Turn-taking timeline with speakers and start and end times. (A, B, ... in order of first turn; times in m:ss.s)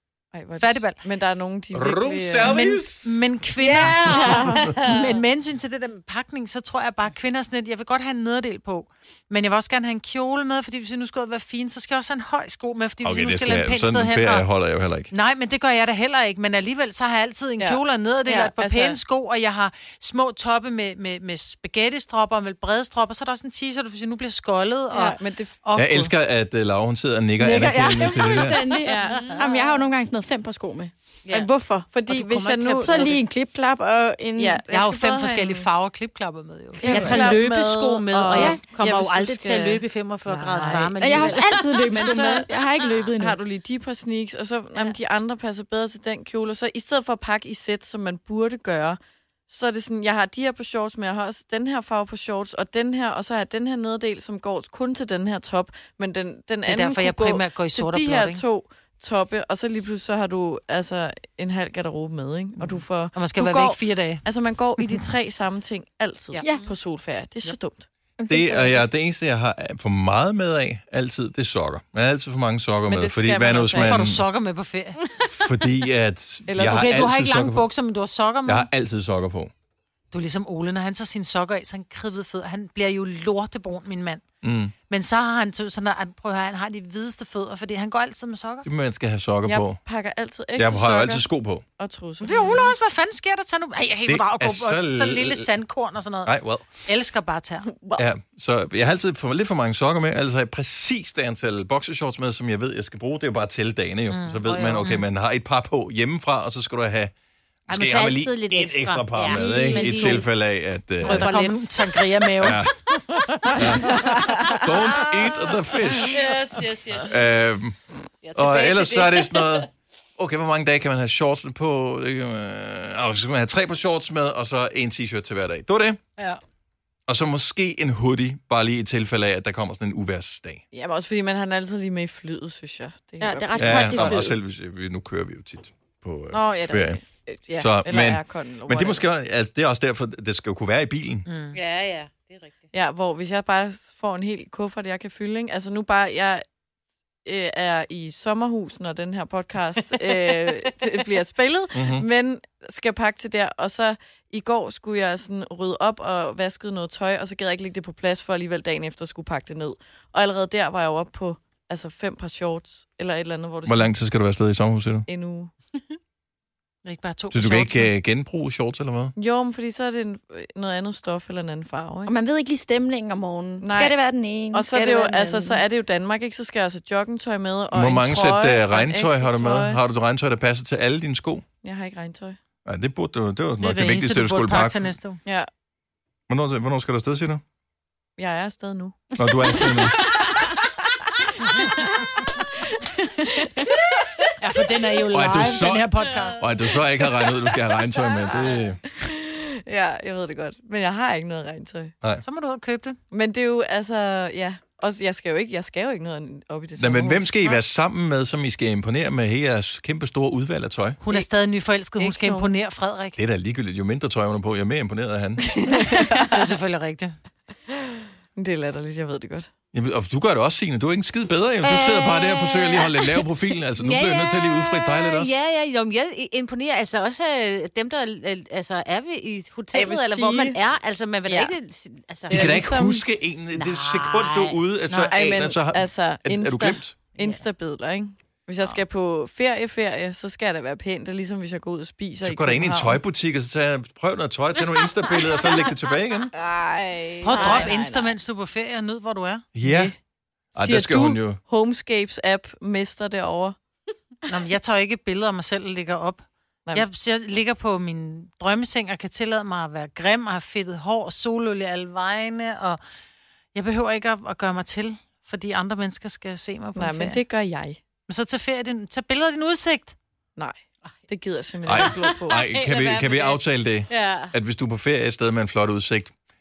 0:00.3-0:02.6 A
0:00.6-0:01.0 B
0:01.7-0:03.2 C
0:02.4-0:14.4 B
0:03.6-0:04.7 D
0:03.6-0:05.1 E
0:13.0-0:15.1 C
0:15.1-0:26.1 B
0:17.6-0:19.0 A
0:24.9-0:25.2 D
0:25.2-0:25.6 A
0:25.8-0:28.8 C
0:27.4-0:31.9 D
0:28.8-0:29.6 A
0:29.0-0:29.4 E
0:31.9-0:33.2 A
0:32.0-0:33.2 E
0:32.8-0:34.6 D
0:34.4-0:35.7 A
0:34.7-0:37.4 B
0:36.8-0:39.8 A
0:36.8-0:37.4 D
0:36.9-0:42.4 E
0:38.3-0:38.6 D
0:40.3-0:41.3 B
0:40.5-0:41.4 A
0:40.9-0:43.4 D
0:41.9-0:42.5 A
0:43.2-1:07.9 A
0:56.6-0:58.4 B
1:02.6-1:04.2 B
1:06.4-1:06.7 E
1:08.2-1:08.8 D
1:08.3-1:14.2 C
1:12.9-1:14.0 A
1:13.8-1:15.0 B
1:15.3-1:17.7 C
1:16.5-1:17.1 A
1:16.6-1:18.7 B
1:18.4-1:19.5 C
1:20.1-1:24.2 B
1:24.4-1:24.7 C
1:24.9-1:28.7 B
1:28.6-1:29.8 C
1:29.4-1:31.2 A
1:30.6-1:31.6 C
1:31.8-1:32.7 A
1:32.2-1:37.7 B
1:34.0-1:35.5 C
1:36.2-1:36.8 C
1:37.7-1:38.0 A
1:38.0-1:47.1 C
1:44.1-1:45.0 B
1:44.4-1:45.0 E
1:47.7-1:50.3 E
1:47.7-1:51.3 C
1:49.7-1:50.1 A
1:51.0-1:52.0 E
1:51.0-1:52.6 B
1:52.4-1:52.8 C
1:53.5-1:56.3 C
1:53.8-1:54.6 A
1:54.3-1:55.2 E
1:56.0-1:57.2 E
1:57.0-1:57.8 C
1:58.2-1:59.6 E
1:58.3-2:06.0 C
2:07.1-2:10.6 C
2:10.7-2:14.2 A
2:13.2-2:14.3 D
2:13.6-2:17.0 C
2:16.3-2:19.1 A
2:17.6-2:21.2 C
2:21.3-2:21.6 B
2:21.5-2:22.5 E
2:22.7-2:26.4 A
2:27.2-2:43.9 A
2:31.7-2:32.0 C
2:43.6-2:45.1 C
2:45.1-2:45.5 A
2:46.8-2:47.9 B
2:47.3-2:49.1 C
2:49.2-2:52.1 A
2:52.0-2:55.6 D
2:53.6-2:54.0 A
2:54.5-2:59.8 A
2:57.7-3:01.4 C
3:01.6-3:02.4 A
3:02.6-3:04.9 C
3:03.6-3:05.2 B
3:06.3-3:07.4 C
3:08.2-3:10.5 A
3:09.2-3:10.1 C
3:11.4-3:11.7 A
3:13.2-3:13.8 A
3:14.4-3:16.4 B
3:15.1-3:18.8 C
3:18.1-3:21.9 A
3:22.2-3:23.0 B
3:23.1-3:27.5 A
3:26.8-3:31.0 C
3:31.0-3:33.2 B
3:32.0-3:32.5 A
3:33.2-3:35.5 C
3:35.5-3:36.4 A
3:36.2-3:37.2 B
3:38.4-3:39.5 A
3:39.7-3:45.4 C
3:41.6-3:43.2 E
3:43.8-3:52.6 E
3:49.7-3:50.6 A
3:51.3-3:51.5 A
3:52.3-3:53.0 A
3:52.3-3:57.0 C
3:53.5-3:54.6 E
3:55.1-4:03.0 A
3:57.2-3:57.4 E
4:02.2-4:06.3 C
4:06.3-4:08.1 A
4:07.2-4:09.5 B
4:07.3-4:07.8 D
4:09.5-4:09.9 C
4:09.6-4:10.0 A
4:10.5-4:11.4 C
4:10.6-4:13.6 A
4:14.3-4:22.8 B
4:23.5-4:27.2 B
4:26.7-4:27.8 A
4:28.1-4:30.0 B
4:30.4-4:32.4 A
4:31.6-4:36.1 C
4:31.8-4:34.3 E